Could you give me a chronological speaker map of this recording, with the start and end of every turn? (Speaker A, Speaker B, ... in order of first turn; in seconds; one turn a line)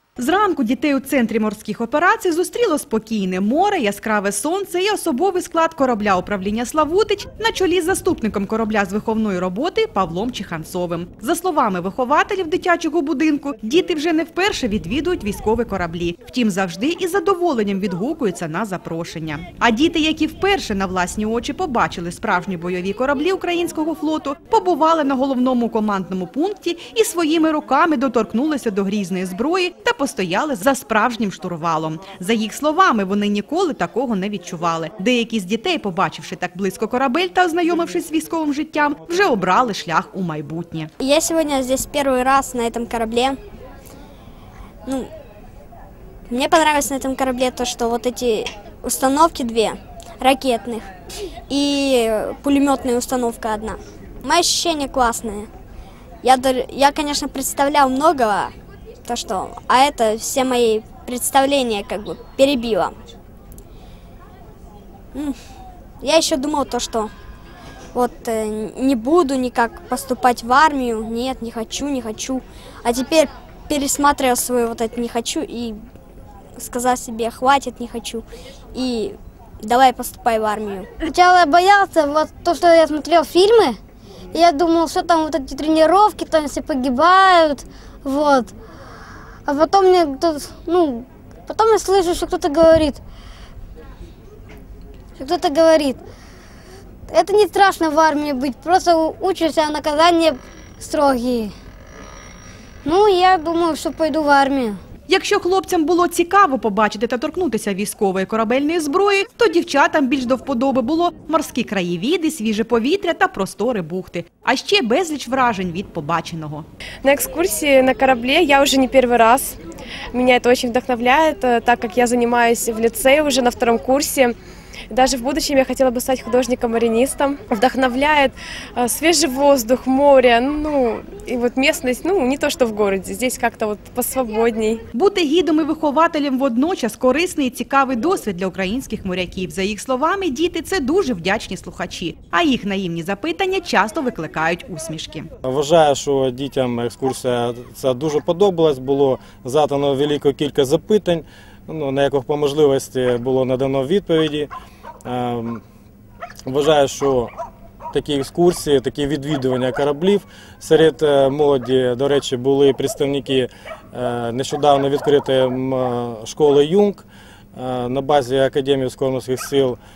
Speaker A: 0.2-40.9
Speaker B: 41.0-43.4
Speaker B: 46.3-50.9
Speaker B: 51.5-55.5
Speaker B: 56.2-58.5
Speaker B: 59.1-63.0
Speaker B: 66.0-67.1
Speaker B: 67.9-75.8
Speaker B: 76.6-80.9
Speaker C: 81.0-83.8
Speaker C: 84.3-88.5
Speaker C: 89.5-93.0
Speaker C: 95.2-96.0
Speaker C: 97.1-101.5
Speaker C: 102.8-104.8
Speaker A: 105.1-116.7
Speaker D: 117.0-119.6
Speaker D: 120.1-124.3
Speaker D: 124.9-134.8
Speaker A: 134.9-145.3
Speaker E: 145.4-154.5
Speaker E: 155.1-155.6
Speaker E: 156.5-157.3
Speaker E: 157.9-169.8